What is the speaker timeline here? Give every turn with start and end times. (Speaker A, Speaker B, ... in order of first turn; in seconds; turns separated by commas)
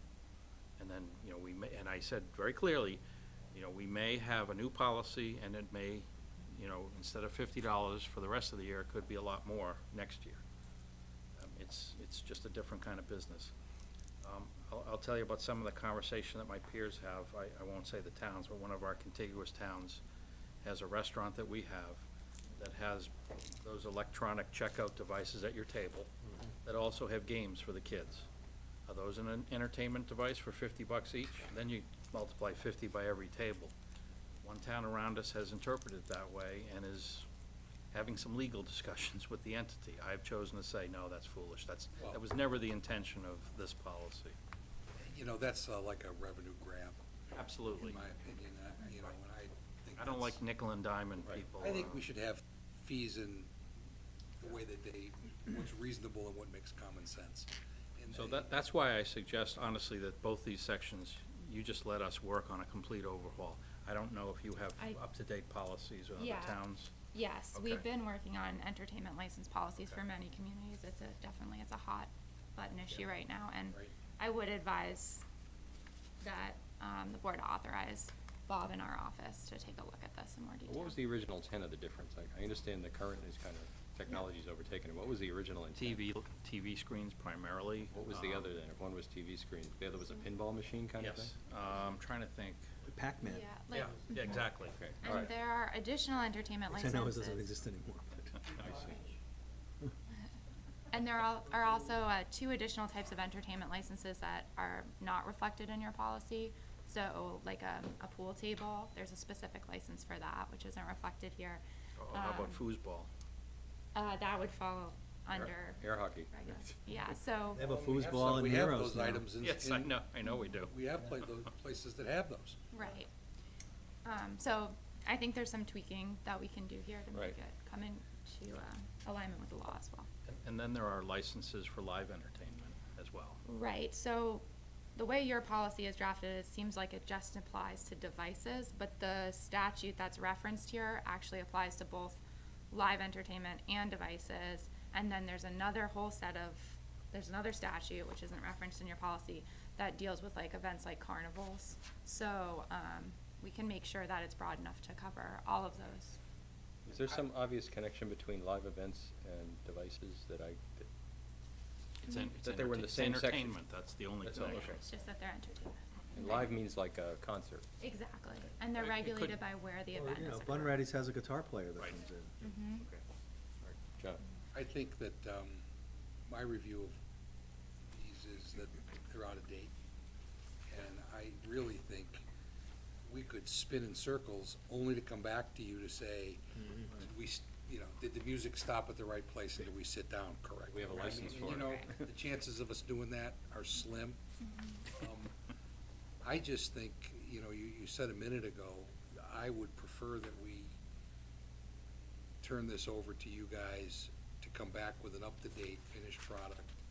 Speaker A: 0.8-3.0, Speaker A: 3.5-10.4, Speaker A: 11.4-13.5, Speaker A: 14.2-20.0, Speaker A: 20.6-22.0, Speaker A: 22.6-26.1, Speaker A: 26.6-28.3, Speaker A: 28.9-33.7, Speaker A: 34.4-37.3, Speaker A: 37.9-44.4, Speaker B: 45.0-47.0, Speaker A: 47.3-48.0, Speaker B: 47.8-50.4, Speaker A: 50.0-52.0, Speaker B: 51.5-53.5, Speaker B: 54.4-58.5, Speaker A: 58.1-66.9, Speaker C: 66.2-75.2, Speaker A: 67.5-67.8, Speaker C: 76.2-81.0, Speaker D: 80.6-86.0, Speaker A: 85.8-88.5, Speaker D: 87.9-91.3, Speaker A: 91.0-92.6, Speaker E: 92.8-93.5, Speaker C: 93.2-94.4, Speaker A: 93.7-94.8, Speaker D: 94.7-95.3, Speaker C: 95.0-97.5, Speaker E: 96.7-98.3, Speaker A: 98.5-98.9, Speaker D: 98.5-99.1, Speaker C: 100.9-112.6, Speaker A: 112.0-113.1, Speaker C: 113.9-117.6, Speaker D: 115.3-116.3, Speaker E: 117.5-119.3, Speaker B: 118.0-120.0, Speaker A: 119.4-120.7, Speaker B: 120.7-122.6, Speaker C: 122.7-123.1, Speaker C: 124.0-130.1, Speaker D: 127.1-127.4, Speaker A: 130.2-133.4, Speaker C: 133.4-134.4, Speaker C: 134.9-142.2, Speaker C: 142.7-156.2, Speaker D: 156.8-160.9, Speaker A: 162.0-164.8, Speaker D: 162.3-163.6, Speaker D: 164.2-164.8, Speaker C: 164.4-166.5, Speaker D: 166.1-167.6, Speaker C: 167.8-170.8, Speaker A: 168.8-169.4, Speaker E: 169.9-172.4, Speaker C: 172.4-172.8, Speaker A: 172.8-173.0, Speaker B: 174.5-175.6, Speaker B: 176.3-177.0, Speaker B: 177.8-179.7, Speaker B: 180.7-182.2, Speaker B: 183.0-194.2, Speaker E: 186.6-186.8, Speaker D: 190.7-192.0, Speaker C: 191.3-191.9, Speaker C: 194.4-194.8, Speaker B: 194.9-195.3, Speaker B: 196.2-200.7, Speaker B: 202.4-206.7